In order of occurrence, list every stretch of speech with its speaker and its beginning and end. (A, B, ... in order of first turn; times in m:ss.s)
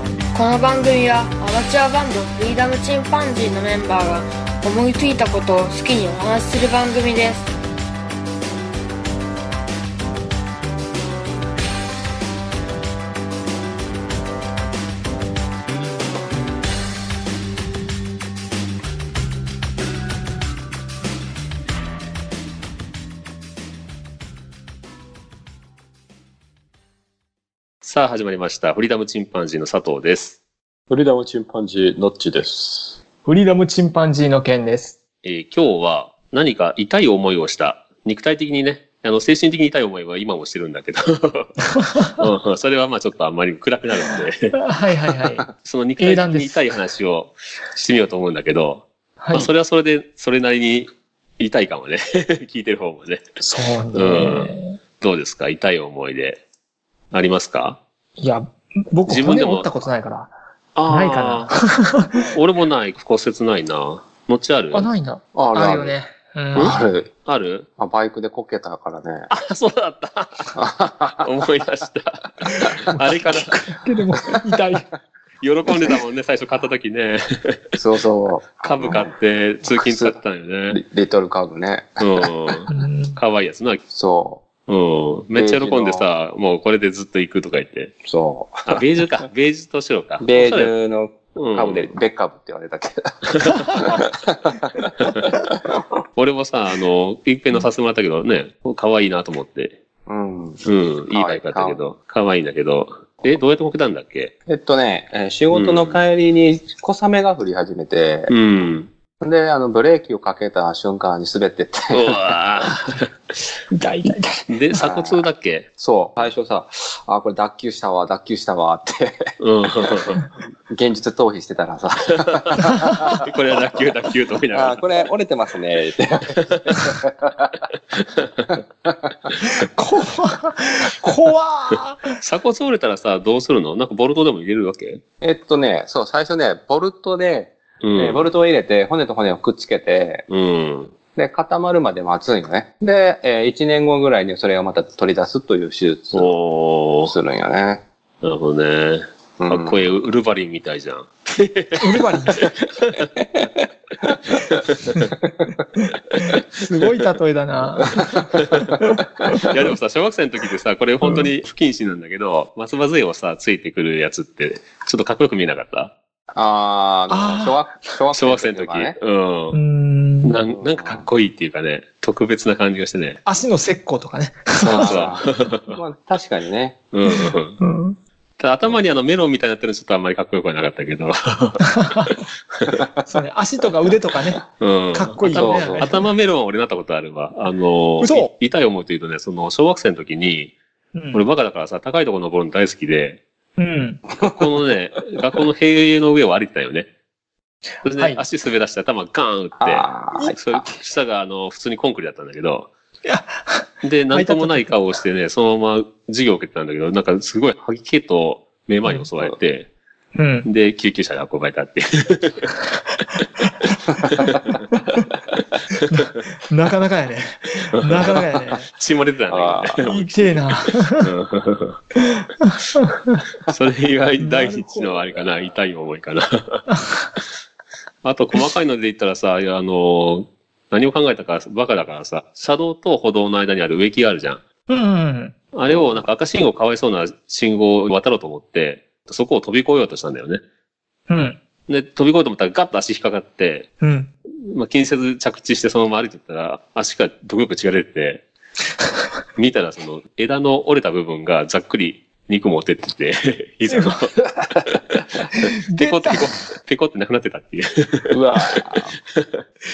0:00.3-0:07.5 A
0:27.8-0:30.4 B
0:30.9-0:33.0 C
0:33.2-0:35.0 D
0:35.2-0:44.5 B
0:41.8-0:42.1 D
0:44.5-0:45.5 D
0:45.6-0:53.2 B
0:46.0-0:46.6 D
0:49.2-0:49.5 D
0:53.4-0:54.8 D
0:53.9-0:56.4 B
0:57.1-0:57.8 B
0:58.2-1:00.3 D
0:59.1-0:59.8 B
1:00.8-1:01.6 B
1:00.9-1:02.2 D
1:02.3-1:04.9 B
1:04.7-1:06.8 D
1:05.3-1:06.0 C
1:06.6-1:07.1 C
1:06.6-1:07.7 B
1:07.8-1:09.3 C
1:09.3-1:13.5 B
1:10.6-1:11.3 C
1:12.9-1:14.9 D
1:15.4-1:17.8 B
1:17.8-1:19.1 C
1:18.6-1:20.8 B
1:19.7-1:20.2 C
1:20.7-1:22.6 C
1:22.0-1:23.8 B
1:22.7-1:23.2 D
1:23.9-1:24.4 C
1:24.7-1:28.0 B
1:25.4-1:26.1 C
1:28.0-1:28.8 C
1:28.7-1:30.7 B
1:30.2-1:35.3 C
1:31.4-1:31.9 B
1:33.4-1:34.0 B
1:36.2-1:39.8 B
1:40.1-1:41.8 C
1:40.6-1:44.3 B
1:44.5-1:48.3 C
1:45.5-1:46.0 B
1:48.3-1:48.9 B
1:49.2-1:52.2 C
1:51.9-1:53.1 B
1:53.7-1:54.5 D
1:54.5-1:55.7 B
1:54.8-1:55.2 C
1:55.8-1:59.2 C
1:59.4-2:00.3 B
2:00.7-2:03.1 C
2:03.1-2:04.9 B
2:04.5-2:07.5 C
2:06.4-2:06.9 B
2:08.0-2:08.5 B
2:08.5-2:09.0 C
2:09.4-2:12.2 D
2:11.7-2:15.0 B
2:15.2-2:20.2 C
2:17.8-2:18.3 B
2:20.3-2:21.0 B
2:21.2-2:26.3 C
2:26.1-2:27.1 B
2:27.0-2:27.8 C
2:28.2-2:33.1 B
2:29.4-2:29.9 C
2:31.8-2:32.5 D
2:36.3-2:39.4 D
2:38.4-2:45.9 B
2:41.0-2:41.3 D
2:46.3-2:49.0 C
2:47.1-2:47.7 D
2:48.1-2:49.6 B
2:49.5-2:50.4 D
2:50.2-2:53.2 B
2:50.5-2:51.1 C
2:53.2-2:55.0 D
2:54.6-2:56.8 C
2:54.7-2:55.8 B
2:56.9-2:57.6 B
2:57.1-2:58.0 D
2:58.4-3:02.9 B
3:01.6-3:02.1 D
3:03.0-3:06.0 D
3:04.6-3:10.5 B
3:05.3-3:06.0 C
3:08.0-3:08.3 D
3:11.0-3:11.2 D
3:11.1-3:13.2 B
3:13.6-3:14.0 D
3:14.2-3:14.6 C
3:14.3-3:16.9 B
3:17.8-3:22.7 B
3:17.9-3:18.2 D
3:19.6-3:20.6 C
3:23.0-3:24.8 D
3:23.8-3:29.7 B
3:30.2-3:30.5 D
3:30.4-3:32.6 B
3:34.1-3:34.5 B
3:34.3-3:34.8 D
3:35.9-3:38.7 D
3:37.9-3:41.8 B
3:39.3-3:39.8 C
3:39.8-3:41.1 D
3:42.0-3:43.2 D
3:43.5-3:46.6 B
3:44.2-3:44.9 D
3:46.7-3:47.1 D
3:48.0-3:54.4 B
3:54.7-3:55.4 D
3:55.5-4:00.4 B
3:55.7-3:56.1 C
4:01.1-4:01.4 D
4:01.7-4:03.7 B
4:03.8-4:04.1 D
4:04.5-4:08.2 B
4:09.4-4:14.2 B
4:13.7-4:14.0 D
4:14.7-4:18.2 B
4:15.4-4:16.3 D
4:18.1-4:19.0 C
4:19.2-4:19.4 B